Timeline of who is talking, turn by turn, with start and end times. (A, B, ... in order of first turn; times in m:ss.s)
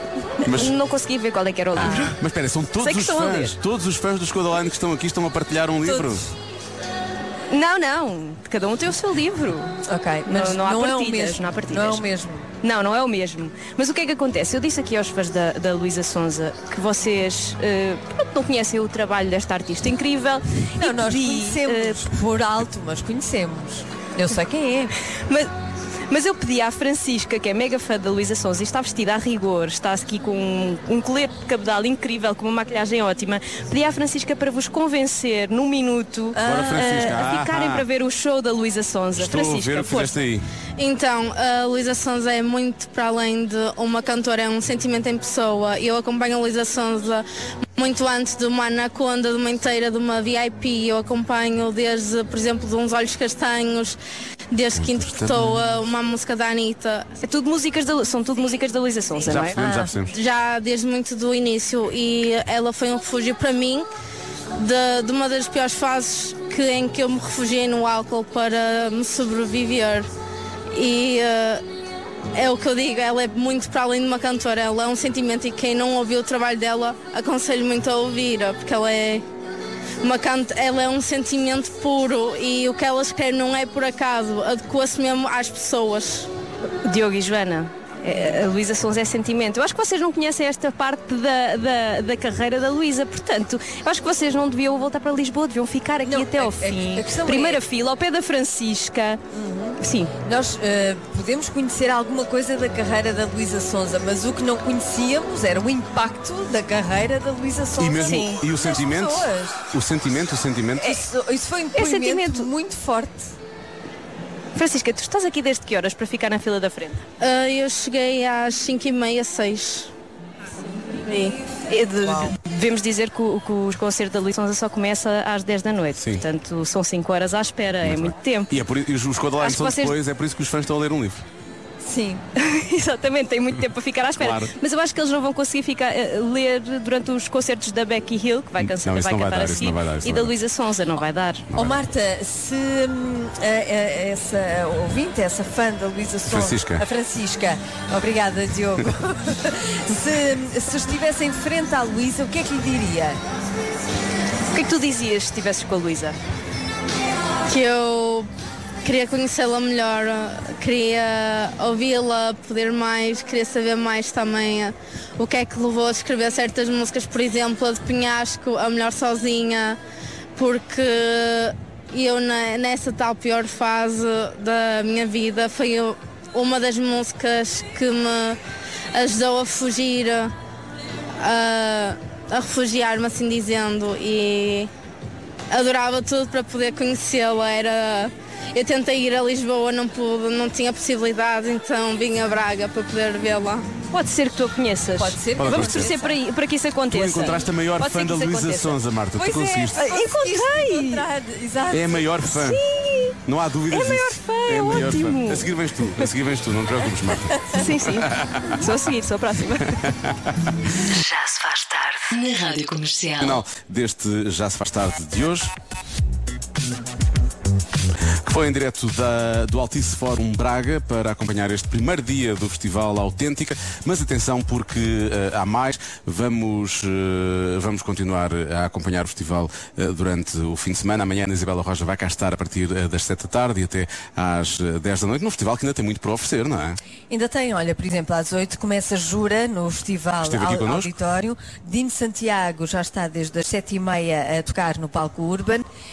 0:00.4-0:02.2 A
0:00.5-0:00.8 B
0:01.8-0:06.2 B
0:01.8-0:02.2 C
0:02.8-0:03.6 A
0:05.8-0:06.3 C
0:07.5-0:12.1 A
0:09.8-0:12.5 C
0:12.6-0:22.1 A
0:20.8-0:24.9 C
0:26.1-0:40.2 A
0:36.4-0:37.2 C
0:36.4-0:37.8 B
0:39.2-0:40.5 B
0:40.8-0:47.3 D
0:47.8-0:54.0 D
0:54.5-0:57.1 D
0:54.8-0:55.6 B
0:57.2-0:59.7 A
0:59.2-1:00.0 C
0:59.3-1:00.1 B
1:00.1-1:03.9 D
1:04.6-1:10.1 D
1:10.7-1:11.6 D
1:12.4-1:19.2 D
1:20.0-1:26.3 D
1:26.8-1:39.2 A
1:36.1-1:37.6 C
1:39.3-1:49.6 C
1:39.8-1:40.1 A
1:47.8-1:51.0 B
1:48.1-1:48.4 A
1:50.8-1:53.3 C
1:51.8-1:52.5 A
1:54.6-1:57.0 A
1:57.2-1:59.9 D
2:01.1-2:08.5 A
2:06.0-2:06.2 B
2:07.8-2:11.2 B
2:09.4-2:10.0 A
2:11.8-2:12.2 C
2:12.4-2:21.4 A
2:14.2-2:14.5 B
2:18.6-2:20.3 B
2:21.5-2:21.8 B
2:21.6-2:33.2 C
2:26.3-2:26.8 B
2:34.5-2:36.2 A
2:37.5-2:38.3 D
2:38.8-2:49.8 D
2:50.4-2:58.4 D
2:58.9-3:00.3 D
3:01.2-3:04.7 D
3:05.5-3:13.7 D
3:13.9-3:18.8 A
3:15.0-3:16.2 C
3:15.4-3:15.9 B
3:16.9-3:19.9 B
3:19.2-3:22.6 C
3:19.7-3:21.1 A
3:21.7-3:22.6 B
3:22.4-3:23.1 A
3:23.3-3:28.7 B
3:23.7-3:26.1 A
3:27.5-3:29.8 A
3:29.6-3:30.4 B
3:30.9-3:33.4 E
3:33.2-3:35.5 B
3:38.2-3:56.8 B
3:57.1-4:05.6 C
4:00.2-4:00.9 B